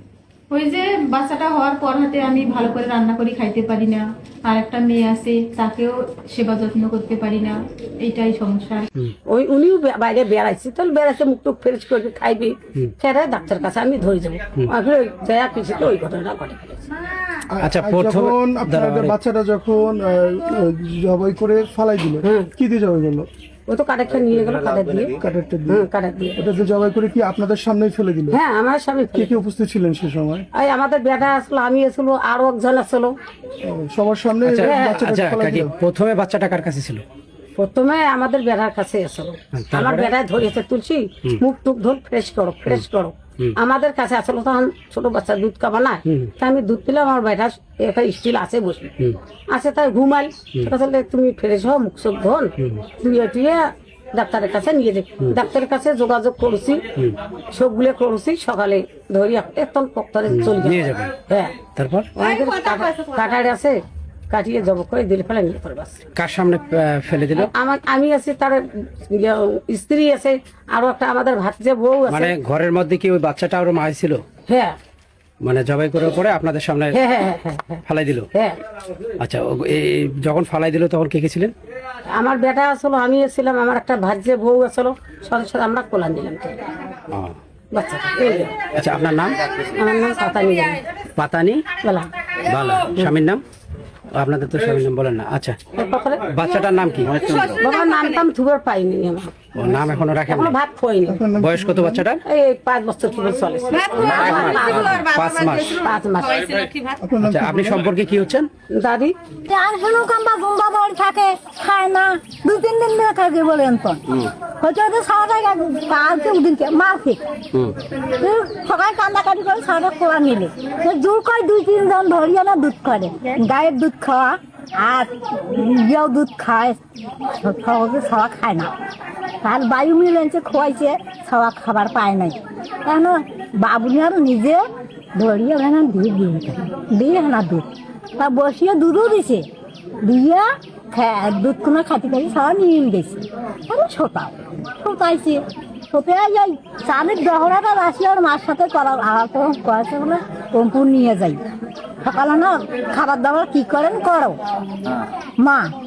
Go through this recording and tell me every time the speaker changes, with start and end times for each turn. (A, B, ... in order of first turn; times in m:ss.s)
0:00.5-0:08.9 A
0:09.2-0:16.9 B
0:17.5-0:23.3 C
0:17.6-0:19.1 D
0:22.2-0:22.5 B
0:23.7-0:26.4 B
0:25.1-0:28.4 C
0:28.3-0:29.3 B
0:29.1-0:30.5 C
0:30.6-0:33.1 B
0:33.6-0:35.8 C
0:34.4-0:37.0 D
0:34.6-0:35.0 B
0:37.6-0:48.9 B
0:39.5-0:40.1 D
0:46.0-0:46.3 D
0:49.5-0:56.9 B
0:52.6-0:52.8 D
0:57.5-1:01.6 B
1:00.3-1:01.1 D
1:01.7-1:02.1 D
1:02.1-1:03.8 B
1:04.3-1:06.0 B
1:06.1-1:07.5 D
1:07.4-1:12.4 B
1:12.1-1:14.2 D
1:14.5-1:14.7 B
1:15.4-1:17.0 D
1:16.9-1:18.6 B
1:17.9-1:18.3 D
1:19.2-1:21.5 D
1:22.1-1:26.6 B
1:27.1-1:27.4 D
1:27.7-1:28.7 B
1:28.7-1:29.5 D
1:29.6-1:30.8 B
1:31.2-1:31.7 D
1:31.8-1:32.1 B
1:32.4-1:33.4 D
1:34.1-1:35.6 D
1:35.7-1:36.4 B
1:36.3-1:37.6 D
1:37.4-1:39.5 B
1:39.5-1:40.5 D
1:40.3-1:41.2 B
1:41.1-1:42.0 C
1:41.4-1:42.2 D
1:42.2-1:44.9 B
1:44.0-1:45.8 D
1:44.0-1:45.0 E
1:45.6-1:46.6 B
1:47.0-1:47.9 C
1:47.2-1:48.5 D
1:48.7-1:49.2 B
1:49.5-1:57.2 E
1:58.2-2:08.7 E
2:09.4-2:14.6 E
2:15.1-2:17.7 E
2:18.2-2:19.4 E
2:20.0-2:31.4 E
2:32.0-2:34.4 E
2:35.4-2:35.7 E